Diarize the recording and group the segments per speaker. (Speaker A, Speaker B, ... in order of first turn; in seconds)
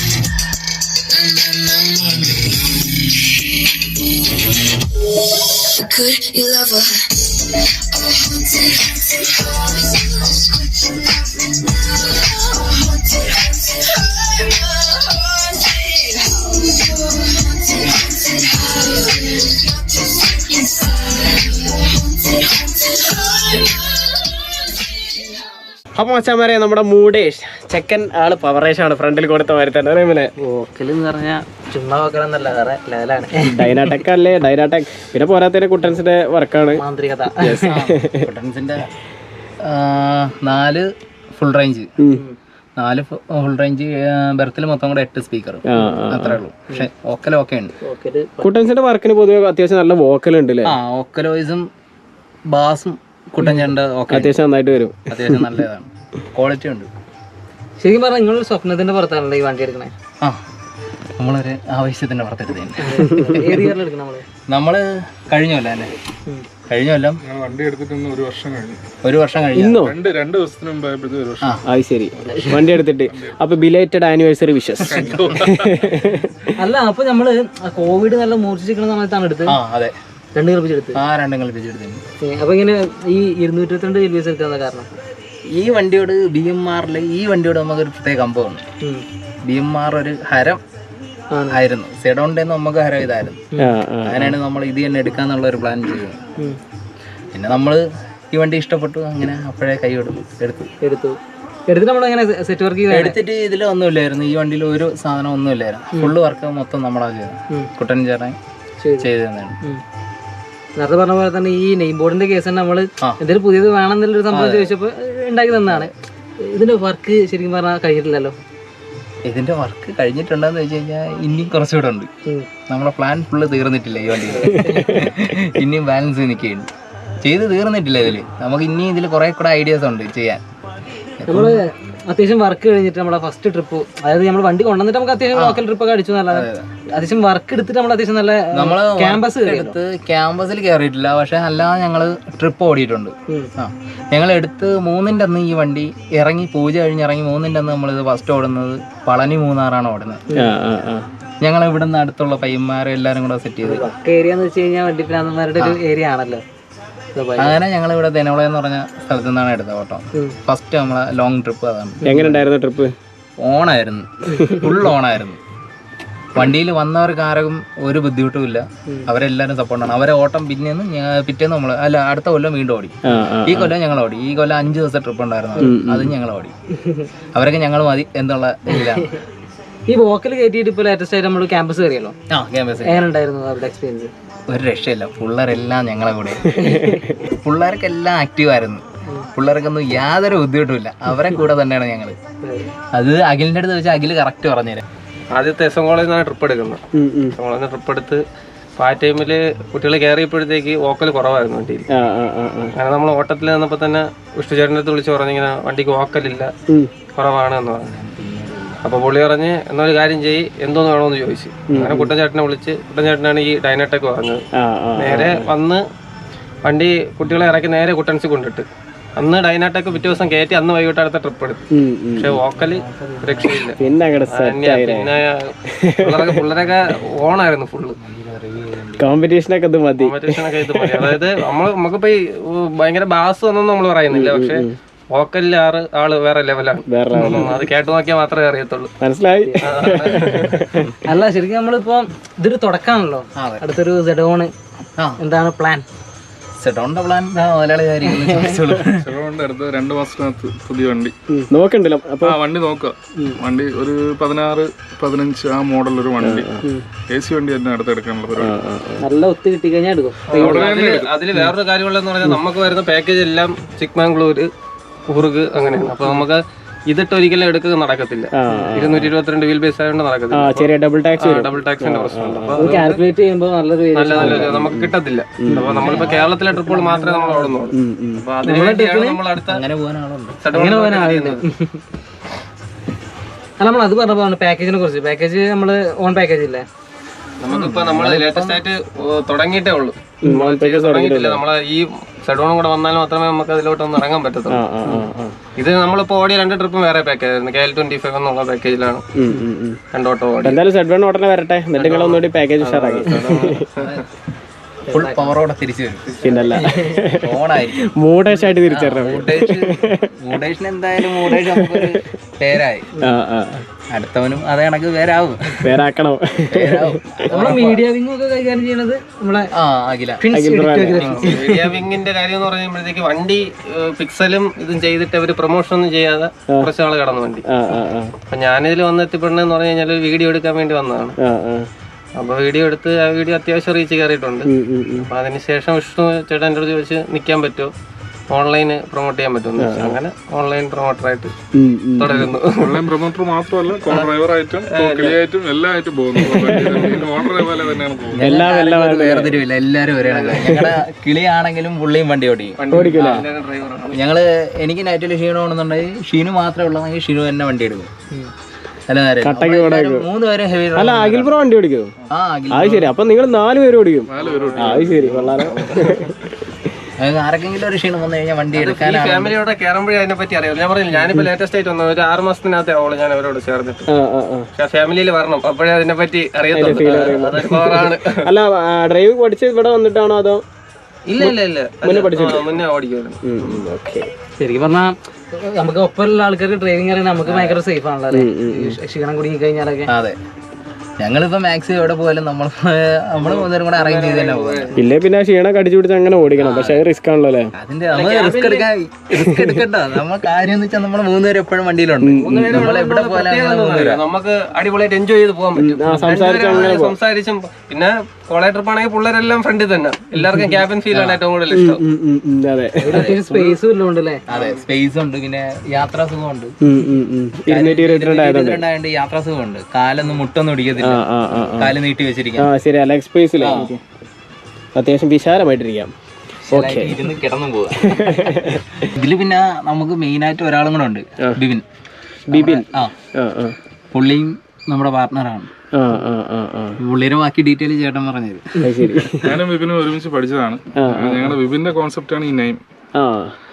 Speaker A: 1.1-25.7
Speaker B: 25.9-30.3, 33.4-36.8, 37.4-38.3, 42.0-42.2, 45.6-46.4, 48.4-50.8, 54.1-55.5, 63.0-63.6, 69.5-70.0, 71.6-76.3, 93.6-94.4, 124.5-125.1, 150.3-151.1, 162.1-162.9, 173.0-173.8, 175.6-176.1, 186.6-187.1, 196.9-197.3, 201.9-202.7, 211.7-212.1, 214.5-215.5, 221.7-222.4, 223.8-226.5, 229.0-231.3, 234.1-234.8, 236.9-237.6, 239.0-240.9, 251.5-252.4, 256.2-256.6, 258.4-259.0, 268.3-269.1, 270.3-272.8, 274.1-275.9, 277.7-278.2, 290.2-291.4, 294.5-295.4, 299.1-299.8, 300.4-303.7, 306.2-310.1, 311.0-312.0, 313.0-313.6, 315.6-317.3, 320.2-321.6, 327.4-328.1, 331.2-331.7, 334.4-335.1, 339.6-340.0, 341.5-342.3, 346.3-346.9, 348.2-349.4, 350.4-350.8, 352.7-353.3, 359.2-360.1, 360.7-361.9, 362.5-366.1, 373.9-374.5, 376.5-380.4, 381.2-382.6, 383.2-384.1, 388.1-388.8, 394.8-397.5, 399.1-399.6, 402.0-402.8, 405.6-406.9, 411.5-413.1, 416.6-418.6, 420.8-421.8, 422.4-423.7, 424.7-425.9, 426.5-427.1, 427.8-428.9, 432.3-433.6, 435.7-436.8, 438.6-439.4, 440.8-441.4, 442.9-443.4
Speaker C: 30.4-34.0, 36.8-37.8, 47.8-48.5, 53.4-53.7, 57.8-59.9, 62.8-64.2, 72.3-72.7, 76.6-79.6, 80.3-81.0, 82.2-84.9, 91.3-91.6, 100.8-103.2, 108.8-109.1, 110.8-115.9, 116.4-118.3, 124.3-125.1, 131.3-139.8, 153.6-156.4, 157.1-157.6, 162.0-162.4, 164.3-164.6, 176.8-177.1, 178.7-179.1, 179.9-182.1, 182.8-184.1, 186.6-187.0, 192.4-192.7, 241.0-244.5, 245.2-245.8, 248.1-248.5, 259.0-260.7, 272.6-274.5, 276.9-277.5, 278.4-279.2, 280.5-281.8, 283.6-286.6, 304.9-305.3, 317.3-319.5, 384.4-389.9, 405.9-406.2, 412.8-414.2
Speaker D: 37.6-38.9, 39.6-41.9, 42.8-47.7, 50.6-51.7, 52.5-54.3, 55.1-56.9, 61.2-63.6, 64.5-65.9, 66.7-67.2, 69.0-69.8, 79.5-80.0, 81.0-82.0, 85.5-88.6, 89.4-90.6, 91.5-93.4, 94.0-96.2, 97.3-100.7, 102.9-108.3, 109.0-109.6, 114.3-114.7, 119.2-122.1, 122.7-126.7, 127.2-130.4, 131.2-131.6, 135.3-135.6, 136.3-136.7, 138.5-150.2, 151.4-153.9, 157.4-162.4, 163.4-165.4, 166.3-176.5, 177.3-179.1, 182.3-183.0, 184.5-192.2, 192.9-194.8, 207.8-208.8, 222.5-223.9, 228.0-229.2, 243.4-243.6, 246.6-249.1, 275.7-277.2, 279.4-280.4, 287.5-288.6, 303.8-304.0, 304.9-307.9, 308.6-312.9, 313.9-315.8, 316.5-317.8, 319.5-321.6, 348.1-353.2, 353.9-357.9, 358.9-361.4, 362.1-362.9, 367.0-369.3, 389.9-390.2, 391.0-394.7, 397.6-404.0, 410.9-411.2, 414.3-416.5, 417.5-421.0, 421.6-422.5, 423.4-423.7, 426.4-431.6, 432.3-432.9, 433.9-435.5, 436.8-438.6
Speaker E: 67.2-68.8, 69.8-73.4, 74.8-76.1, 249.0-251.1, 252.2-256.5, 257.1-258.6, 260.3-261.1, 342.5-348.3, 364.1-366.1, 439.2-442.6
Speaker F: 195.3-196.8, 197.4-198.2, 198.8-201.8, 202.8-206.5, 207.2-207.9, 208.8-214.4, 215.0-215.8, 216.6-218.7, 219.2-221.6, 222.2-223.8, 224.3-228.0, 230.0-238.9, 239.6-240.6, 260.3-264.5, 265.1-273.0, 273.9-279.6, 280.4-281.4, 287.4-294.6, 295.6-299.0, 299.9-300.6, 301.7-304.0, 321.0-327.4, 328.3-331.2, 332.2-334.5, 335.0-337.7, 338.3-341.3, 342.0-342.9, 343.9-344.1, 344.7-345.2, 350.0-350.5, 352.6-354.0, 364.2-364.9, 368.5-373.9, 374.6-378.3, 381.1-383.6, 393.2-394.7, 397.9-398.7, 402.2-411.8, 414.3-414.6